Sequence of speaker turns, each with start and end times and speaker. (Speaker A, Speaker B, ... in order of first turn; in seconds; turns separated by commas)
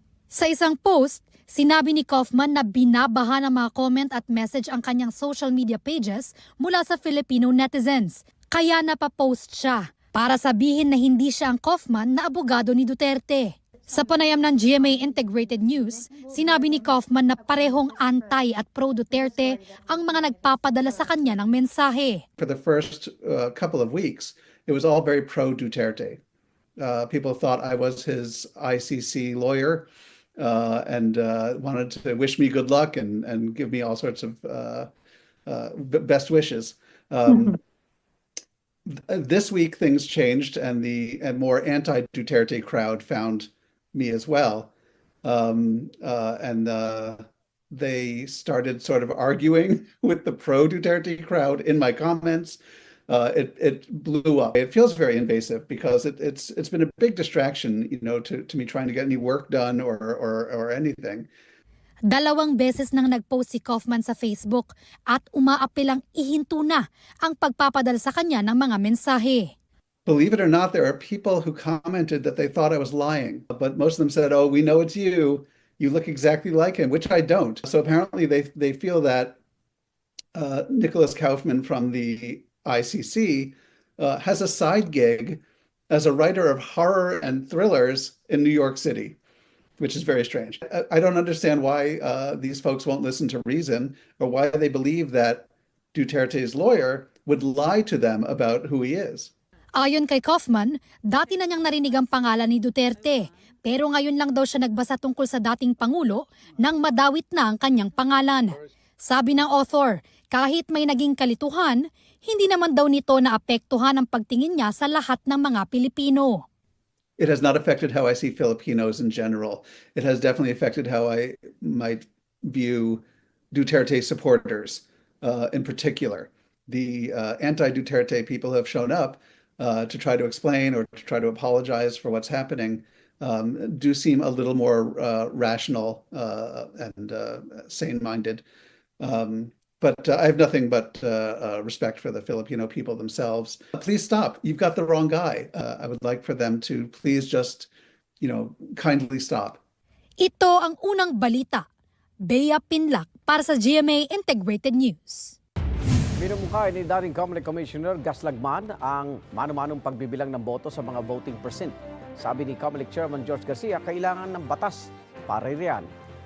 Speaker A: 0.3-22.2, Speaker B: 22.4-26.2, Speaker B: 26.8-34.9, Speaker B: 35.5-37.6, Speaker B: 38.9-44.7, Speaker B: 45.2-61.3, Speaker A: 62.1-69.5, Speaker B: 70.1-79.4, Speaker B: 80.3-89.2, Speaker B: 89.8-99.3, Speaker A: 99.8-116.4, Speaker B: 117.2-138.4, Speaker B: 139.0-147.7, Speaker B: 148.2-149.6, Speaker A: 150.2-151.7, Speaker A: 152.3-155.4, Speaker C: 156.2-165.9